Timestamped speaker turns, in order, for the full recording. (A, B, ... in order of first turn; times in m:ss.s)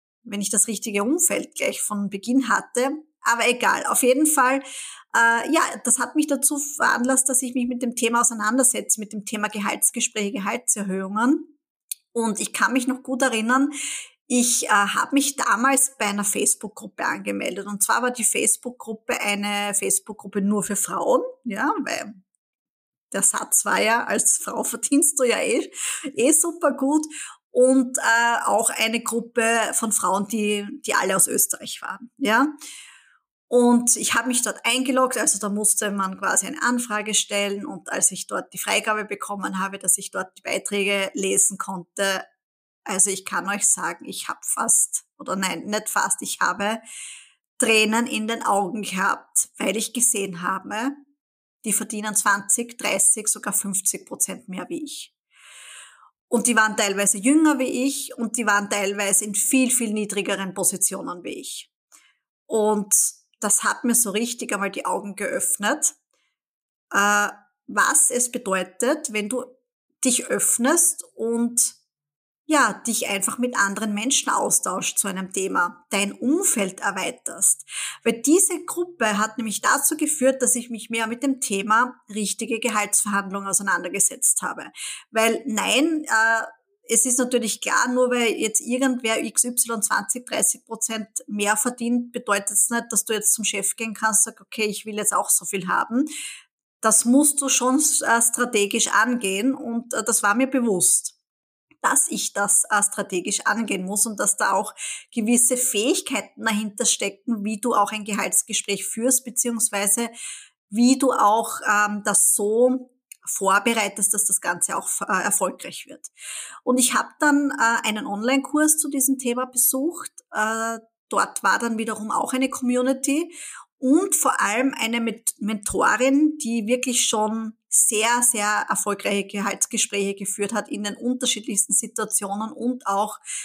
0:00.2-0:11.5 A
0:12.1-0:13.7 A
0:14.3-0:22.2 A
0:23.1-0:32.5 A
0:33.5-0:42.2 A
0:42.9-0:46.8 A
0:47.6-0:51.0 A
0:51.6-0:55.1 A
0:56.3-1:01.7 A
1:02.5-1:06.0 A
1:06.9-1:11.8 A
1:12.5-1:36.1 A
1:36.8-1:41.1 A
1:41.8-1:50.1 A
1:50.7-1:56.1 A
1:56.6-2:13.2 A